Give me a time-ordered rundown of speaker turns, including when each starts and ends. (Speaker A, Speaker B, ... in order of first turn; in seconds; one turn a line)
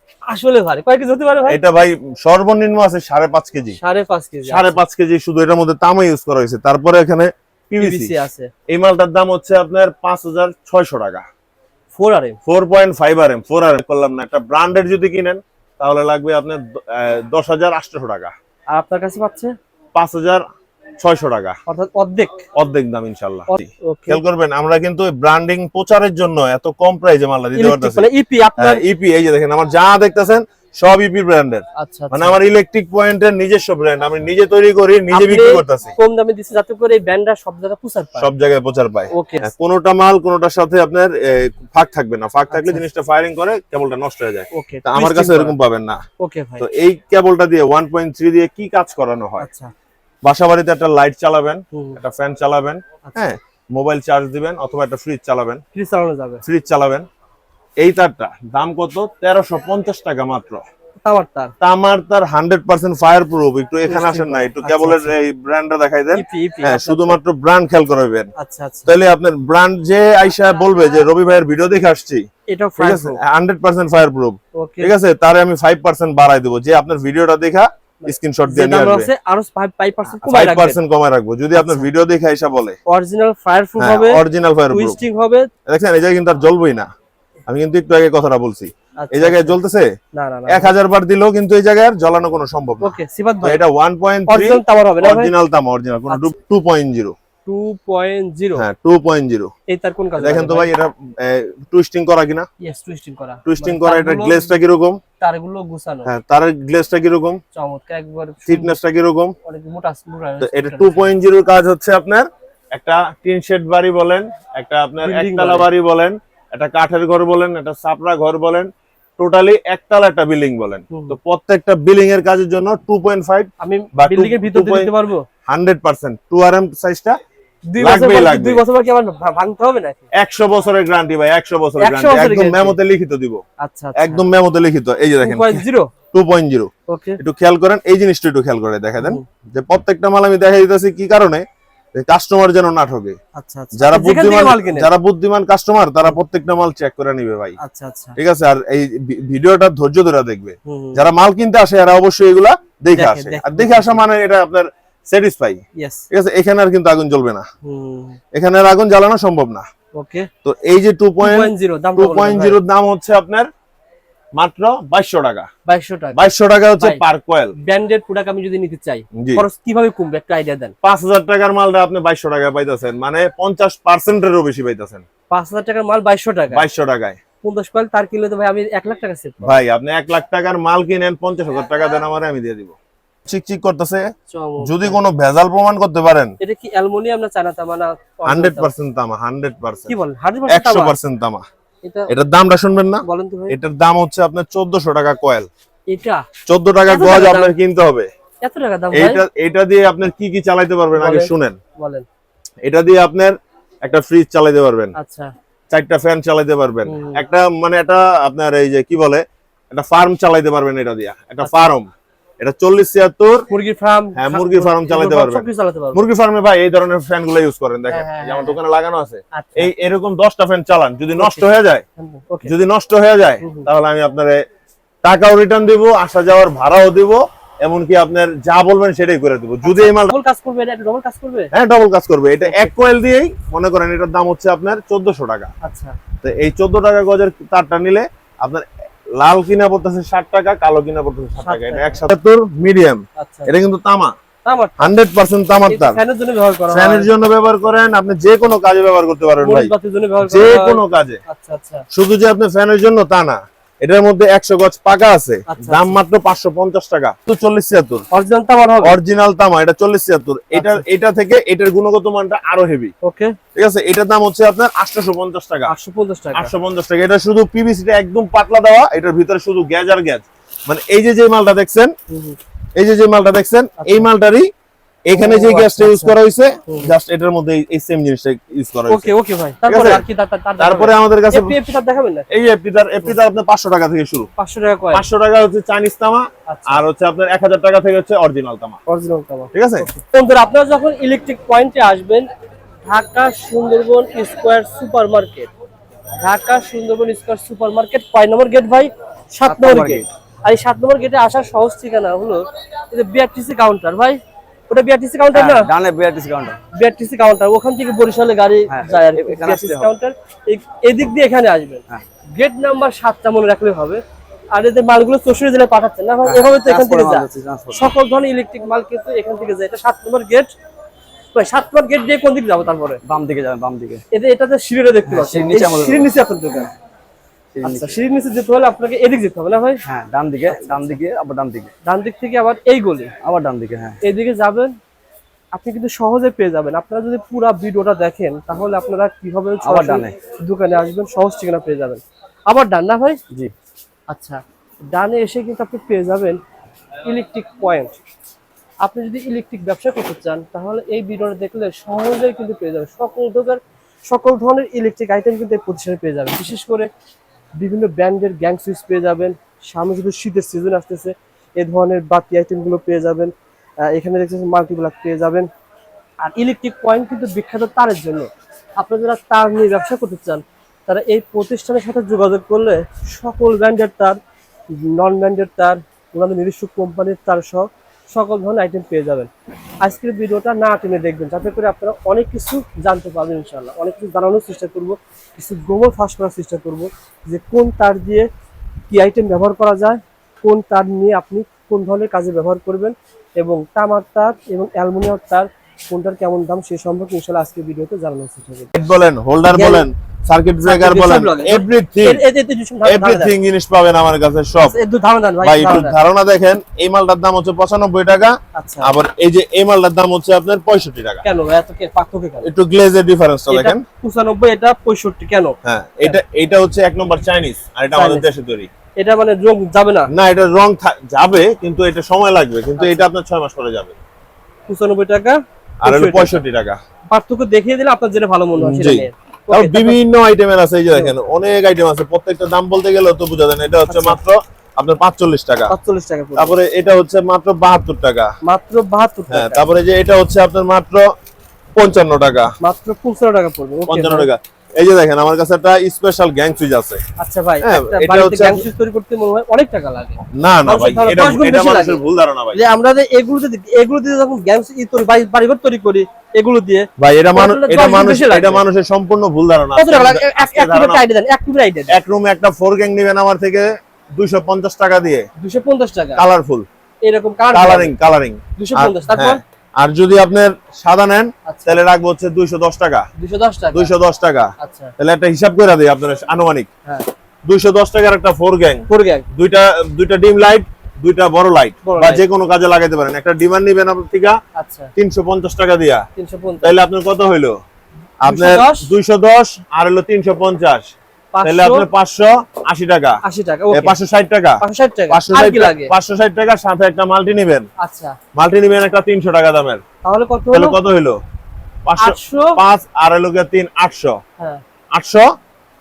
Speaker A: 0.3-1.6
Speaker B: 1.4-3.8
Speaker A: 3.7-4.8
Speaker B: 4.4-8.1
Speaker A: 7.8-8.5
Speaker B: 8.7-11.2
Speaker A: 11.9-12.4
Speaker B: 12.4-18.3
Speaker A: 18.7-19.5
Speaker B: 19.9-20.4
Speaker B: 21.0-21.6
Speaker A: 21.7-22.4
Speaker B: 22.5-35.9
Speaker A: 23.5-24.2
Speaker A: 27.5-28.8
Speaker A: 31.8-32.3
Speaker A: 35.1-38.3
Speaker B: 38.2-46.0
Speaker A: 39.1-39.5
Speaker A: 42.5-42.8
Speaker A: 44.5-45.5
Speaker A: 46.2-46.6
Speaker B: 46.6-49.5
Speaker A: 49.4-49.7
Speaker B: 50.2-55.6
Speaker A: 51.7-52.0
Speaker A: 53.0-53.3
Speaker A: 55.7-56.4
Speaker B: 56.4-57.1
Speaker B: 57.8-60.6
Speaker A: 61.0-61.5
Speaker B: 61.6-68.3
Speaker A: 63.9-65.1
Speaker A: 66.1-67.2
Speaker A: 68.4-68.9
Speaker B: 68.8-72.3
Speaker A: 72.5-73.2
Speaker B: 72.8-79.1
Speaker A: 74.5-74.9
Speaker A: 78.0-80.8
Speaker B: 80.0-82.8
Speaker A: 81.5-81.9
Speaker A: 82.9-85.5
Speaker B: 83.8-85.0
Speaker B: 85.7-86.9
Speaker B: 87.5-89.9
Speaker A: 89.0-89.6
Speaker A: 90.1-90.7
Speaker B: 90.5-97.1
Speaker A: 92.8-93.6
Speaker A: 94.3-95.3
Speaker A: 97.5-98.6
Speaker B: 98.6-99.5
Speaker A: 99.7-100.7
Speaker B: 100.2-102.5
Speaker A: 102.6-104.5
Speaker B: 103.5-105.0
Speaker A: 105.2-106.1
Speaker B: 106.0-107.4
Speaker A: 107.5-108.7
Speaker B: 108.5-109.3
Speaker A: 109.4-111.1
Speaker B: 110.4-124.9
Speaker A: 115.0-115.7
Speaker A: 120.9-121.2
Speaker A: 123.6-125.2
Speaker B: 125.5-127.2
Speaker A: 127.7-130.1
Speaker B: 127.8-128.6
Speaker B: 130.1-133.4
Speaker A: 131.8-132.8
Speaker A: 133.6-134.2
Speaker B: 133.9-141.4
Speaker A: 135.2-135.9
Speaker A: 136.9-137.2
Speaker A: 139.0-139.2
Speaker B: 141.9-143.2
Speaker A: 143.3-144.9
Speaker B: 143.7-147.6
Speaker A: 147.6-148.2
Speaker B: 148.2-155.6
Speaker A: 150.7-151.0
Speaker A: 152.9-154.0
Speaker A: 155.8-156.1
Speaker B: 156.1-157.5
Speaker A: 157.6-158.2
Speaker B: 158.3-159.6
Speaker A: 160.0-160.3
Speaker B: 160.4-163.5
Speaker A: 161.2-162.6
Speaker B: 164.4-165.5
Speaker A: 165.7-166.3
Speaker B: 166.1-167.6
Speaker A: 167.6-170.7
Speaker B: 169.1-169.4
Speaker B: 170.8-175.1
Speaker A: 175.3-176.6
Speaker B: 176.5-177.2
Speaker A: 177.4-179.6
Speaker B: 179.4-184.1
Speaker A: 184.3-185.0
Speaker B: 184.6-186.3
Speaker A: 186.4-188.7
Speaker B: 188.3-191.4
Speaker A: 189.9-190.9
Speaker A: 191.8-192.1
Speaker B: 192.1-195.5
Speaker A: 193.0-193.6
Speaker A: 195.9-196.2
Speaker B: 196.5-198.1
Speaker A: 196.8-197.5
Speaker A: 198.4-199.2
Speaker B: 198.9-201.6
Speaker A: 201.0-202.1
Speaker B: 202.6-204.9
Speaker A: 204.9-205.3
Speaker B: 205.7-211.9
Speaker A: 206.8-207.2
Speaker A: 211.4-211.7
Speaker B: 212.4-213.5
Speaker A: 213.5-216.0
Speaker B: 214.2-221.8
Speaker A: 217.9-218.6
Speaker A: 219.3-219.7
Speaker A: 221.1-221.4
Speaker A: 222.0-222.5
Speaker B: 222.4-224.4
Speaker A: 223.4-223.7
Speaker B: 225.0-230.2
Speaker A: 229.6-231.5
Speaker B: 231.5-235.5
Speaker A: 232.4-232.7
Speaker A: 235.6-236.0
Speaker B: 236.2-238.7
Speaker B: 239.2-244.1
Speaker A: 241.4-242.0
Speaker A: 243.2-243.5
Speaker A: 244.4-244.9
Speaker B: 244.8-246.0
Speaker A: 245.7-247.1
Speaker B: 246.7-251.2
Speaker A: 249.4-251.8
Speaker B: 251.9-258.0
Speaker A: 255.5-255.9
Speaker A: 258.1-258.9
Speaker B: 258.8-262.9
Speaker A: 260.5-260.8
Speaker A: 263.0-263.3
Speaker B: 263.5-265.7
Speaker A: 265.7-266.5
Speaker B: 266.3-271.9
Speaker A: 272.1-272.4
Speaker B: 272.8-274.5
Speaker A: 273.8-274.1
Speaker B: 275.1-280.0
Speaker A: 275.1-276.1
Speaker A: 276.7-276.9
Speaker A: 278.9-282.3
Speaker B: 280.6-281.6
Speaker B: 282.3-284.3
Speaker A: 284.4-285.1
Speaker B: 284.9-288.8
Speaker A: 286.5-286.8
Speaker A: 288.9-292.3
Speaker B: 289.5-289.9
Speaker A: 292.8-295.5
Speaker A: 296.2-305.7
Speaker C: 299.4-300.1
Speaker C: 305.3-306.6
Speaker A: 306.7-311.8
Speaker C: 308.7-309.9
Speaker A: 312.4-314.0
Speaker A: 314.5-320.5
Speaker C: 316.2-317.9
Speaker A: 321.3-323.0
Speaker C: 323.0-324.0
Speaker A: 324.1-326.7
Speaker C: 325.1-326.1
Speaker C: 327.6-327.9
Speaker A: 327.6-329.8
Speaker C: 329.8-331.7
Speaker A: 330.5-330.9
Speaker A: 331.8-333.1
Speaker C: 333.2-334.0
Speaker A: 334.0-334.7
Speaker A: 335.5-343.2
Speaker C: 339.6-340.1
Speaker A: 344.1-346.4
Speaker A: 347.0-347.9
Speaker A: 348.8-356.9
Speaker A: 357.6-365.5
Speaker A: 366.2-374.2
Speaker A: 374.7-379.3
Speaker A: 379.8-388.3
Speaker A: 388.9-398.7
Speaker B: 398.7-402.2
Speaker A: 399.5-399.9
Speaker A: 400.6-403.4
Speaker B: 402.8-404.8
Speaker A: 404.6-405.9
Speaker B: 405.4-411.2
Speaker A: 408.5-408.9
Speaker A: 411.2-412.5
Speaker B: 412.4-413.8
Speaker A: 413.5-416.2
Speaker B: 415.6-418.7
Speaker A: 417.9-418.3
Speaker A: 419.0-420.1
Speaker B: 420.1-423.9
Speaker A: 422.8-423.0
Speaker A: 424.7-426.4
Speaker B: 425.8-426.8
Speaker A: 427.1-430.0
Speaker B: 428.6-435.7
Speaker A: 433.9-434.2
Speaker A: 435.7-436.6
Speaker B: 436.4-438.3
Speaker A: 438.4-439.7
Speaker B: 439.3-441.1
Speaker B: 441.8-442.5
Speaker A: 442.6-444.3
Speaker B: 443.9-447.0
Speaker A: 447.2-452.0
Speaker B: 447.6-448.7
Speaker B: 450.3-452.6
Speaker A: 452.5-458.6
Speaker B: 457.0-461.0
Speaker A: 459.8-462.0
Speaker B: 461.9-465.3
Speaker A: 465.4-466.2
Speaker B: 466.1-466.6
Speaker A: 467.0-467.9
Speaker B: 467.5-473.1
Speaker A: 468.6-469.4
Speaker A: 471.5-471.8
Speaker A: 473.2-473.9
Speaker B: 473.7-476.7
Speaker A: 474.6-474.9
Speaker B: 477.5-484.4
Speaker A: 478.9-479.3
Speaker A: 481.8-482.2
Speaker A: 484.6-484.9
Speaker B: 484.9-486.0
Speaker A: 486.1-486.7
Speaker B: 486.6-487.6
Speaker B: 488.2-490.9
Speaker A: 488.2-488.9
Speaker A: 491.3-491.9
Speaker B: 491.4-497.7
Speaker A: 493.2-493.9
Speaker A: 494.6-495.9
Speaker A: 497.8-498.1
Speaker B: 498.4-499.8
Speaker A: 500.0-500.8
Speaker B: 500.5-501.2
Speaker B: 501.9-504.2
Speaker A: 502.0-502.6
Speaker B: 504.9-505.3